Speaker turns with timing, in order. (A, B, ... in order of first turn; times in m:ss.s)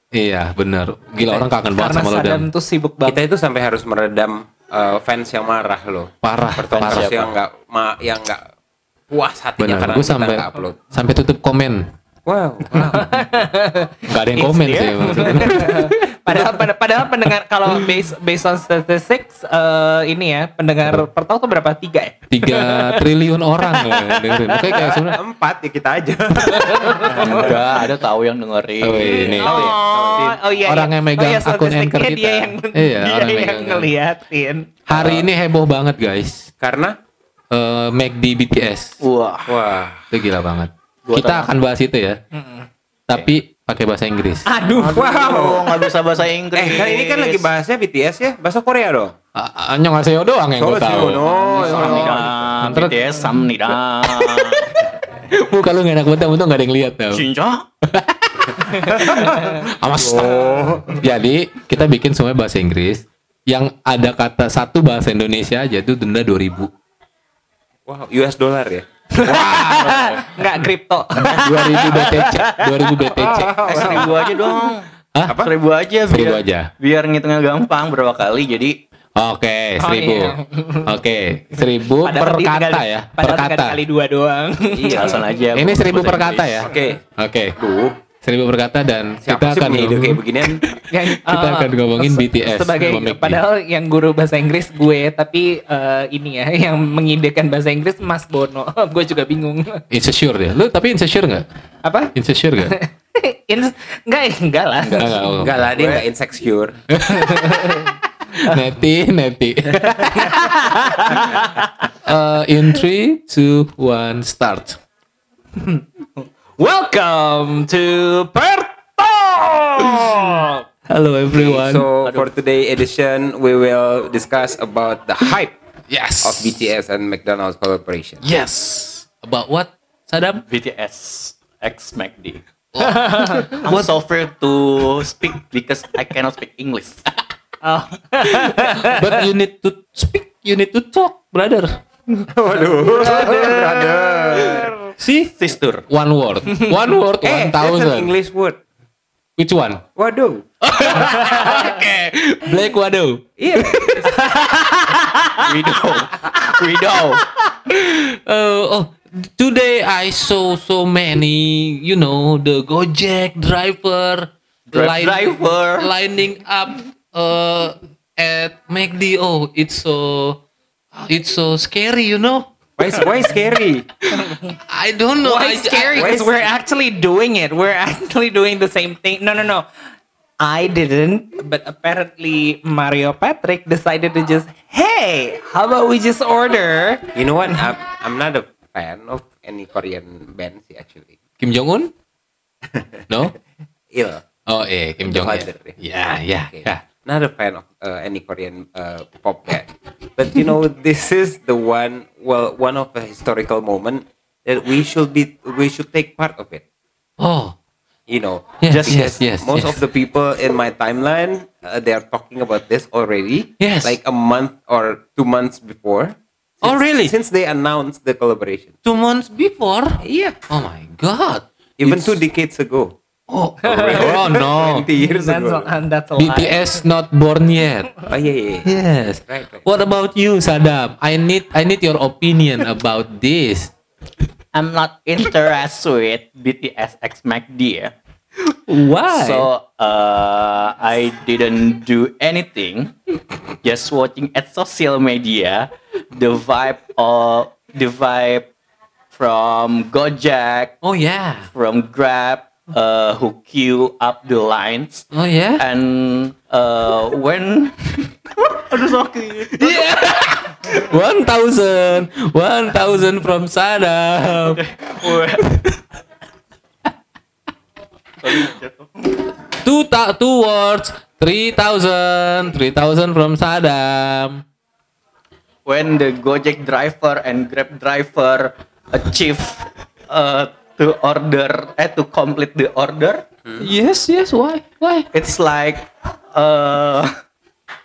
0:00.1-0:02.5 A
0:01.2-0:03.2 B
0:03.0-0:08.4 C
0:06.2-0:07.2 A
0:06.8-0:07.3 D
0:09.1-0:10.8 C
0:09.6-0:11.8 A
0:12.2-0:13.1 C
0:12.8-0:23.1 B
0:14.1-0:16.1 A
0:22.3-0:25.2 A
0:23.6-0:24.6 B
0:24.6-0:27.6 C
0:26.6-0:27.4 B
0:27.1-0:29.5 D
0:28.8-0:29.6 A
0:29.0-0:34.7 B
0:29.4-0:30.5 C
0:30.6-0:33.9 A
0:34.8-0:36.5 A
0:34.9-0:35.3 C
0:36.6-0:36.9 C
0:37.5-0:39.0 A
0:39.0-0:39.5 D
0:39.5-0:40.1 C
0:40.1-0:42.2 A
0:41.0-0:41.5 D
0:42.3-0:43.3 B
0:43.1-0:44.5 A
0:44.4-0:45.6 B
0:44.8-0:47.4 D
0:44.9-0:45.7 C
0:46.5-0:49.1 C
0:49.3-0:53.1 A
0:50.5-0:52.4 C
0:51.3-0:54.7 D
0:54.2-0:57.2 A
0:57.1-0:57.6 D
0:57.8-1:06.7 A
0:58.6-1:01.0 C
0:58.9-0:59.5 B
1:07.9-1:09.9 C
1:09.1-1:14.3 B
1:09.8-1:10.3 D
1:11.3-1:13.7 A
1:13.4-1:14.2 C
1:13.6-1:18.8 D
1:15.2-1:15.5 C
1:16.1-1:16.7 A
1:19.2-1:23.8 A
1:19.8-1:21.0 B
1:21.6-1:25.4 B
1:24.7-1:25.2 C
1:25.0-1:26.7 D
1:25.5-1:27.5 A
1:26.6-1:27.0 C
1:27.6-1:28.0 C
1:28.2-1:30.6 A
1:29.2-1:30.8 C
1:30.9-1:39.8 B
1:31.2-1:33.4 A
1:39.9-1:41.5 A
1:41.8-1:45.3 B
1:42.1-1:42.7 A
1:44.8-1:46.0 D
1:45.0-1:45.6 A
1:45.4-1:46.7 C
1:46.9-1:47.7 A
1:47.1-1:48.0 B
1:48.4-1:50.5 A
1:50.0-1:51.7 B
1:52.0-1:54.8 A
1:55.6-2:00.6 B
2:00.9-2:01.9 A
2:01.3-2:05.5 C
2:05.9-2:06.7 A
2:06.2-2:08.2 C
2:08.2-2:10.4 A
2:10.5-2:12.4 D
2:12.7-2:14.0 A
2:12.8-2:13.6 B
2:13.5-2:17.0 D
2:17.6-2:19.2 B
2:18.2-2:21.8 A
2:22.3-2:24.7 C
2:23.0-2:23.9 D
2:24.4-2:25.3 A
2:25.4-2:25.8 D
2:25.9-2:28.1 A
2:27.2-2:28.6 C
2:29.4-2:29.8 A
2:30.0-2:30.9 C
2:30.6-2:34.1 A
2:33.4-2:34.1 C
2:34.0-2:34.7 B
2:35.4-2:37.2 D
2:37.7-2:50.4 A
2:44.7-2:45.9 D
2:50.9-2:52.5 A
2:52.8-2:53.8 C
2:54.1-2:54.5 B
2:54.7-2:56.0 A
2:55.2-2:59.6 B
2:55.9-2:56.4 C
3:00.4-3:07.7 B
3:07.1-3:11.2 C
3:11.4-3:11.9 A
3:12.7-3:13.2 C
3:13.1-3:13.3 A
3:13.9-3:14.3 C
3:14.4-3:16.8 A
3:15.0-3:26.6 C
3:27.2-3:27.5 A
3:28.1-3:38.7 C
3:28.6-3:29.8 A
3:28.7-3:29.0 D
3:33.6-3:34.0 A
3:36.6-3:37.2 A
3:38.8-3:42.2 A
3:40.0-3:40.4 C
3:41.8-3:42.9 C
3:43.3-3:44.9 A
3:43.6-3:45.7 C
3:43.8-3:44.3 B
3:44.9-3:46.8 B
3:46.2-3:48.1 A
3:48.0-3:49.8 C
3:48.6-3:53.7 A
3:54.5-3:57.9 D
3:58.4-3:59.5 B
3:59.1-4:02.9 D
4:03.6-4:08.4 D
4:09.1-4:10.7 D
4:10.8-4:11.5 A
4:11.5-4:19.9 D
4:15.1-4:15.6 A
4:19.6-4:25.8 A
4:24.4-4:25.4 D
4:28.2-4:28.9 D
4:29.6-4:34.4 A
4:35.6-4:43.2 D
4:43.6-4:45.1 A
4:45.1-4:47.1 D